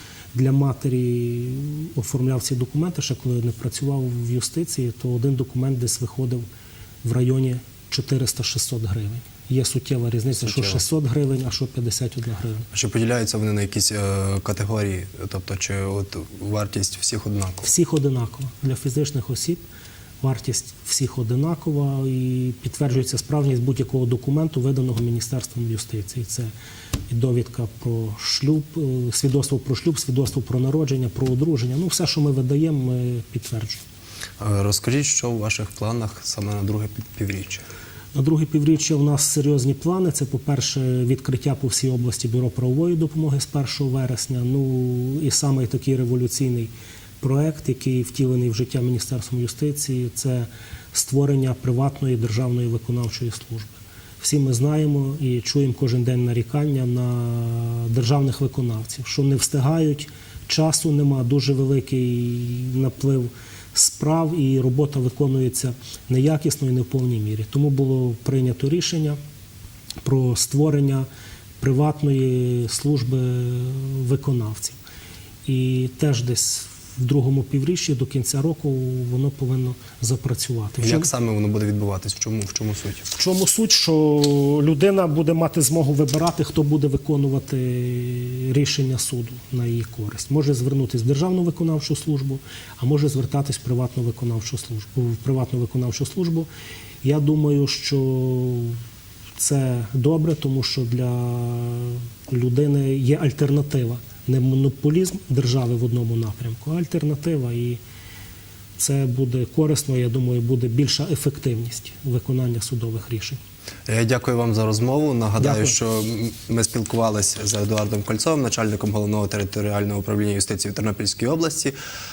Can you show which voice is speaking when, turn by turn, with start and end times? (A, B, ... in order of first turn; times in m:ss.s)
0:00.3-0:06.4 A
0:07.0-0:12.7 A
0:10.4-0:10.8 B
0:12.7-0:17.7 B
0:17.6-0:19.6 A
0:20.2-0:26.5 A
0:27.1-0:33.8 A
0:34.4-0:37.6 B
0:38.1-1:09.2 A
1:10.0-1:11.1 A
1:11.6-1:14.8 A
1:15.5-1:21.1 A
1:20.8-1:23.1 B
1:23.1-1:36.5 A
1:37.0-1:38.8 A
1:39.4-1:47.8 A
1:48.8-1:53.4 A
1:53.9-2:01.8 B
1:55.4-1:55.7 A